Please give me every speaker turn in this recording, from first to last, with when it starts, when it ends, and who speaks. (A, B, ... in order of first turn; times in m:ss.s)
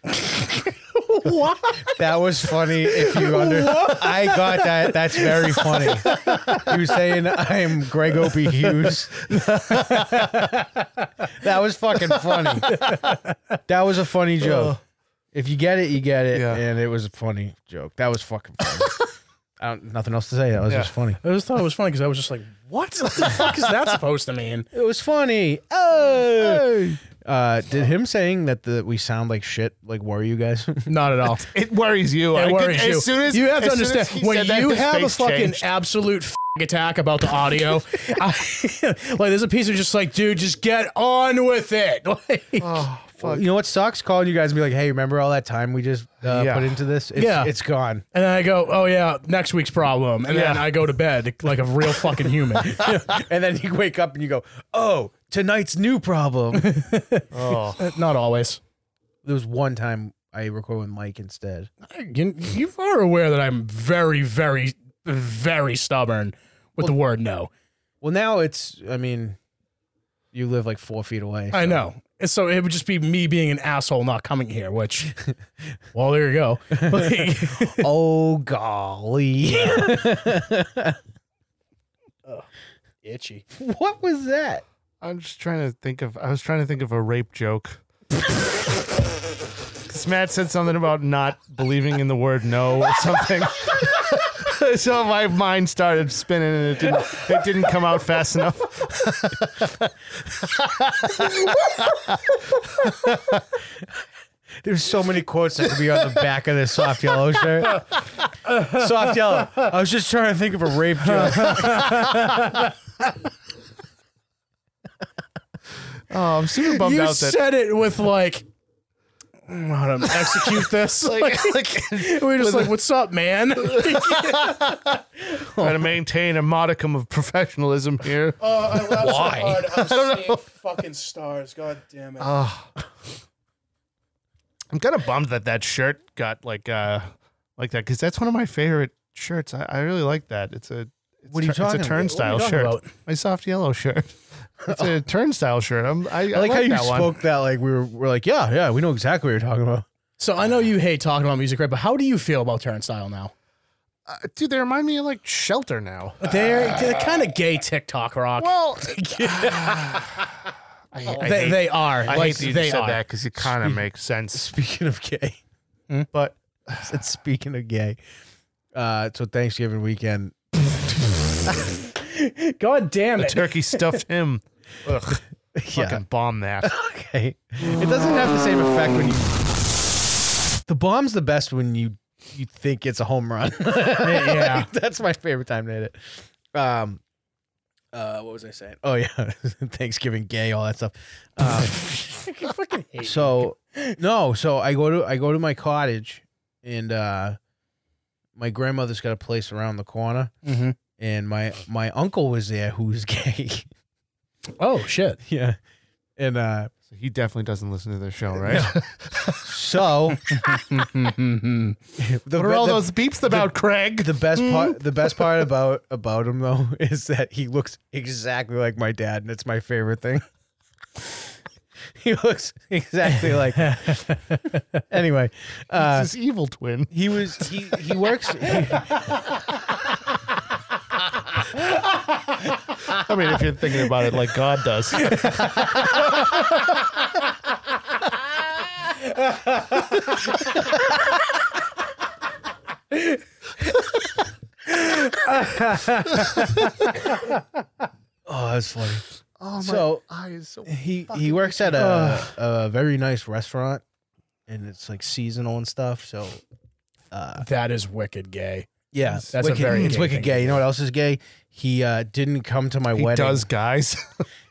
0:00.2-0:01.9 A
0:01.9-0:09.3 B
0:02.9-0:06.6 A
0:08.8-0:10.3 C
0:11.4-0:12.8 B
0:12.7-0:13.6 A
0:13.7-0:14.8 B
0:14.4-0:14.8 C
0:15.3-0:19.1 B
0:16.3-0:16.6 C
0:19.6-0:21.2 B
0:20.7-0:20.9 C
0:21.2-0:24.7 A
0:24.7-0:30.9 B
0:26.4-0:26.8 C
0:30.9-0:31.5 A
0:31.5-0:35.6 C
0:32.3-0:42.8 A
0:42.6-0:43.5 C
0:43.2-0:48.0 B
0:46.2-0:46.8 C
0:47.2-0:47.5 A
0:48.1-0:52.8 A
0:50.3-0:50.7 C
0:52.6-0:56.8 B
0:56.6-0:58.6 A
0:57.3-0:57.8 C
0:59.2-1:01.7 B
1:01.8-1:07.5 A
1:08.0-1:09.4 B
1:10.3-1:11.8 B
1:11.5-1:15.1 A
1:15.9-1:17.8 A
1:16.9-1:21.0 B
1:19.5-1:20.0 A
1:23.0-1:23.4 A
1:23.6-1:24.6 B
1:25.0-1:27.8 C
1:29.9-1:42.2 C
1:42.8-1:43.4 C
1:44.6-1:47.8 B
1:48.4-1:49.6 A
1:48.7-1:52.1 B
1:51.0-1:52.7 A
1:51.2-1:51.8 C
1:56.1-1:57.4 C
1:56.7-1:58.5 A
1:59.5-2:04.6 A
2:00.3-2:02.7 C
2:03.6-2:05.0 C
2:05.6-2:10.4 C
2:08.4-2:12.4 A
2:09.0-2:09.6 B
2:12.2-2:12.7 C
2:14.7-2:27.2 C
2:21.3-2:22.1 B
2:22.0-2:22.9 A
2:26.3-2:29.8 B
2:30.2-2:33.3 A
2:34.1-2:36.2 C
2:36.2-2:39.9 A
2:38.4-2:40.2 C
2:40.9-2:44.5 C
2:41.2-2:43.0 A
2:44.3-2:45.4 B
2:46.1-2:47.0 C
2:46.8-2:48.0 B
2:48.7-2:51.6 B
2:52.0-2:54.0 A
2:53.2-2:56.7 C
2:55.6-2:56.0 B
2:56.6-2:59.3 B
3:00.6-3:07.0 B
3:04.0-3:04.7 A
3:07.9-3:12.4 B
3:12.3-3:14.0 A
3:13.0-3:17.4 B
3:18.4-3:20.3 B
3:20.4-3:20.8 A
3:21.0-3:23.7 B
3:24.6-3:25.2 A
3:25.2-3:25.6 B
3:26.2-3:26.7 B
3:26.9-3:29.6 C
3:29.4-3:30.4 B
3:30.3-3:31.8 A
3:32.0-3:33.5 B
3:32.4-3:35.4 C
3:34.0-3:40.2 B
3:42.0-3:44.2 B
3:44.3-3:44.8 A
3:44.9-3:46.1 B
3:45.8-3:47.5 C
3:46.9-3:49.1 B
3:52.9-3:55.4 C
3:55.1-3:55.4 A
4:02.9-4:03.2 A
4:04.7-4:06.7 A
4:08.3-4:09.0 B
4:09.4-4:12.0 C
4:09.6-4:10.0 B
4:10.7-4:13.8 B
4:11.8-4:12.3 A
4:14.5-4:16.4 B
4:17.1-4:17.4 B
4:17.4-4:18.7 A
4:18.9-4:23.5 B
4:19.0-4:20.1 C
4:19.3-4:20.6 A
4:22.9-4:24.2 C